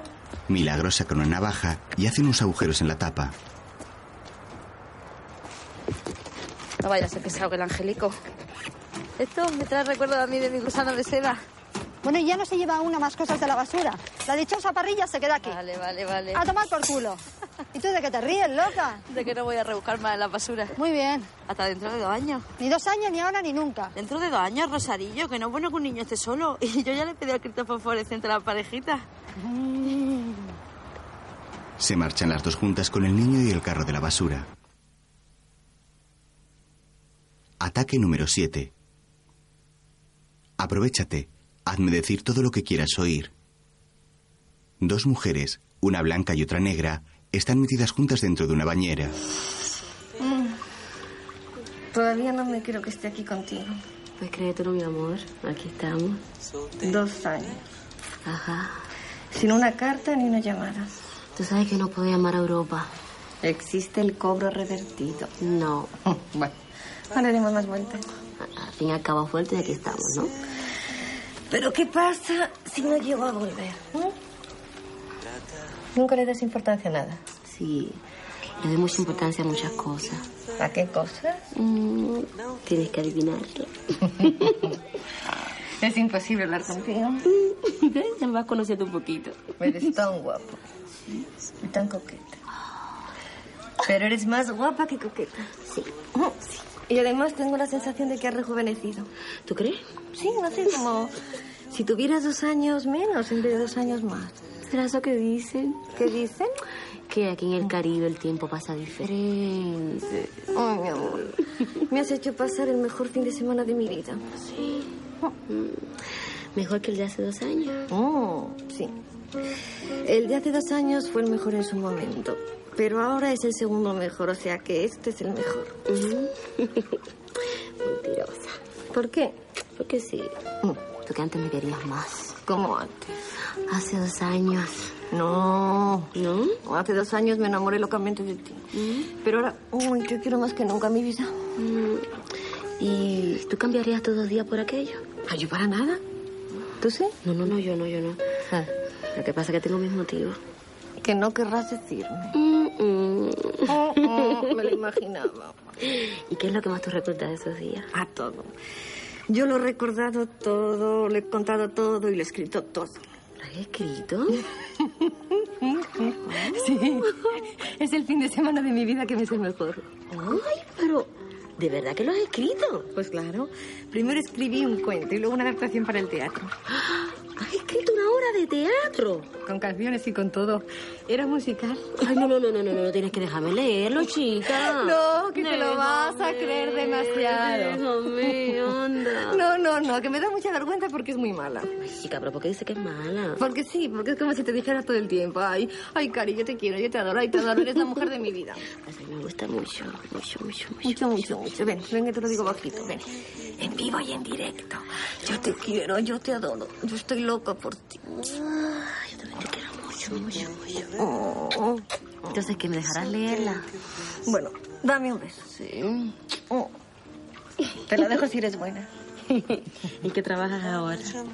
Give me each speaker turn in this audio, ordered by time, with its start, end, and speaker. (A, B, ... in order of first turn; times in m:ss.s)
0:00.5-0:03.3 A
0:06.8-0:08.1 B
0:09.2-0:11.4 B
0:12.0-0:15.6 C
0:15.4-0:16.4 B
0:16.3-0:17.2 C
0:17.7-0:19.0 C
0:19.1-0:20.7 B
0:20.8-0:21.3 C
0:21.4-0:22.4 B
0:22.6-0:23.9 C
0:24.0-0:29.0 B
0:29.4-0:30.4 C
0:31.8-0:34.5 A
0:37.6-0:38.7 A
0:40.6-0:43.3 A
0:44.8-0:49.1 A
0:50.2-0:50.6 D
0:51.9-0:53.8 D
0:54.2-0:56.2 E
0:56.8-0:57.6 D
0:58.2-0:58.8 E
0:59.3-1:00.9 D
1:01.4-1:02.9 E
1:03.4-1:05.3 D
1:05.4-1:05.9 E
1:06.1-1:06.5 D
1:07.1-1:08.0 D
1:08.4-1:10.3 E
1:11.5-1:14.1 D
1:15.9-1:17.2 D
1:17.4-1:18.0 E
1:18.6-1:20.2 E
1:20.6-1:21.4 D
1:21.5-1:24.6 E
1:25.8-1:27.2 D
1:27.4-1:29.5 E
1:29.6-1:30.6 D
1:31.6-1:32.4 D
1:33.8-1:35.5 D
1:35.6-1:35.9 E
1:36.1-1:39.1 D
1:39.4-1:39.8 E
1:40.1-1:41.1 D
1:41.7-1:44.4 D
1:44.7-1:45.9 E
1:45.9-1:46.5 D
1:47.1-1:50.1 E
1:50.5-1:54.4 D
1:55.5-1:55.9 E
1:56.5-1:57.8 E
1:57.9-1:58.9 D
2:00.0-2:05.8 D
2:05.9-2:07.0 E
2:07.8-2:08.6 E
2:08.9-2:09.4 D
2:09.8-2:10.3 E
2:11.0-2:12.4 E
2:12.4-2:13.1 D
2:13.7-2:14.9 E
2:15.1-2:16.1 D
2:16.1-2:16.6 E
2:16.6-2:21.5 D
2:18.7-2:19.1 E
2:21.6-2:22.0 E
2:22.8-2:25.0 E
2:25.3-2:26.0 D
2:26.8-2:27.2 D
2:27.2-2:28.2 E
2:29.2-2:30.4 E
2:31.0-2:32.3 D
2:32.3-2:33.7 E
2:33.7-2:35.6 D
2:35.8-2:37.9 E
2:37.9-2:38.5 D
2:39.3-2:43.0 D
2:43.4-2:44.4 E
2:44.8-2:49.9 D
2:46.3-2:47.3 E
2:50.1-2:52.8 E
2:52.8-2:56.5 D
2:56.7-2:59.3 E
2:59.4-3:02.0 D
3:02.0-3:09.4 E
3:04.5-3:07.8 D
3:09.3-3:11.7 D
3:11.8-3:13.4 E
3:13.4-3:18.6 D
3:18.8-3:21.3 E
3:20.8-3:28.0 D
3:28.1-3:30.8 E
3:31.0-3:32.5 D
3:32.3-3:33.7 E
3:34.2-3:35.5 D
3:35.5-3:36.1 E
3:37.9-3:38.9 D
3:39.3-3:41.1 E